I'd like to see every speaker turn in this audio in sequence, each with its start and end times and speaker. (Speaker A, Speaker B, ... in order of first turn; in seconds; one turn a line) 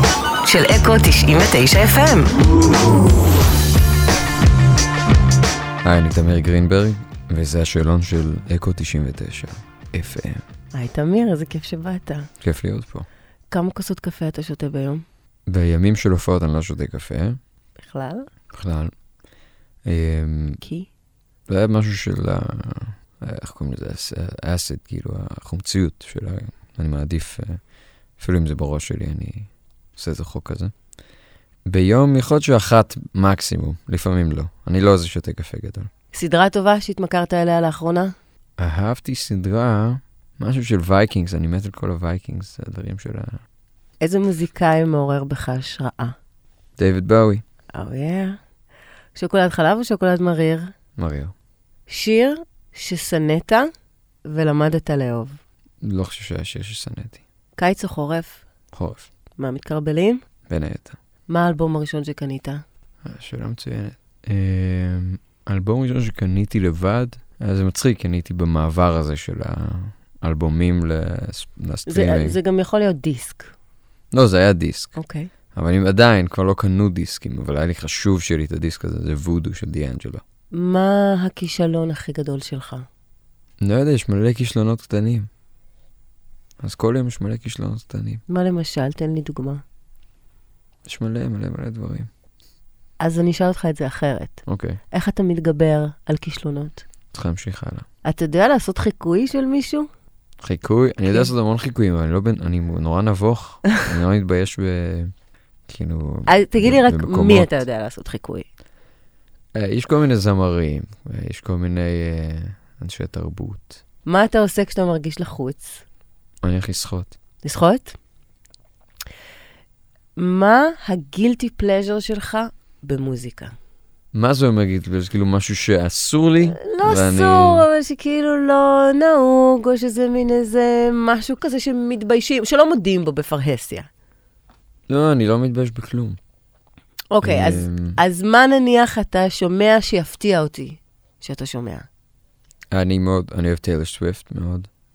Speaker A: 0.4-2.3
Speaker B: 5.8-10.4
Speaker A: 10.7-12.3
Speaker B: 12.4-13.1
Speaker A: 13.5-15.0
Speaker B: 15.5-17.4
Speaker A: 17.8-18.3
Speaker B: 18.5-18.9
Speaker B: 19.9-20.6
Speaker A: 20.6-20.9
Speaker B: 21.5-27.6
Speaker B: 28.2-30.7
Speaker B: 31.7-35.9
Speaker A: 36.1-38.1
Speaker B: 38.6-43.4
Speaker A: 44.0-46.1
Speaker B: 46.8-47.4
Speaker A: 47.7-48.4
Speaker A: 49.1-50.7
Speaker B: 51.0-51.3
Speaker A: 51.9-53.7
Speaker A: 54.2-55.4
Speaker B: 55.8-57.2
Speaker A: 57.6-58.4
Speaker B: 58.7-59.1
Speaker A: 59.4-60.2
Speaker B: 60.5-61.0
Speaker A: 61.3-62.6
Speaker B: 63.0-72.4
Speaker A: 71.9-73.5
Speaker B: 74.1-75.0
Speaker A: 75.0-75.3
Speaker B: 75.5-80.2
Speaker A: 80.5-82.9
Speaker B: 83.6-85.3
Speaker B: 86.6-88.2
Speaker A: 88.3-89.6
Speaker B: 90.9-92.1
Speaker A: 93.0-94.4
Speaker B: 94.5-94.8
Speaker A: 94.9-96.8
Speaker B: 97.1-97.8
Speaker A: 98.0-99.9
Speaker B: 100.4-105.1
Speaker B: 105.7-107.6
Speaker A: 106.3-108.5
Speaker B: 109.5-113.8
Speaker A: 114.1-115.8
Speaker B: 116.4-117.1
Speaker A: 117.4-117.9
Speaker A: 120.2-123.5
Speaker B: 124.1-127.7
Speaker A: 126.4-133.9
Speaker B: 134.9-136.2
Speaker A: 137.1-141.9
Speaker B: 137.2-138.0
Speaker B: 142.7-144.7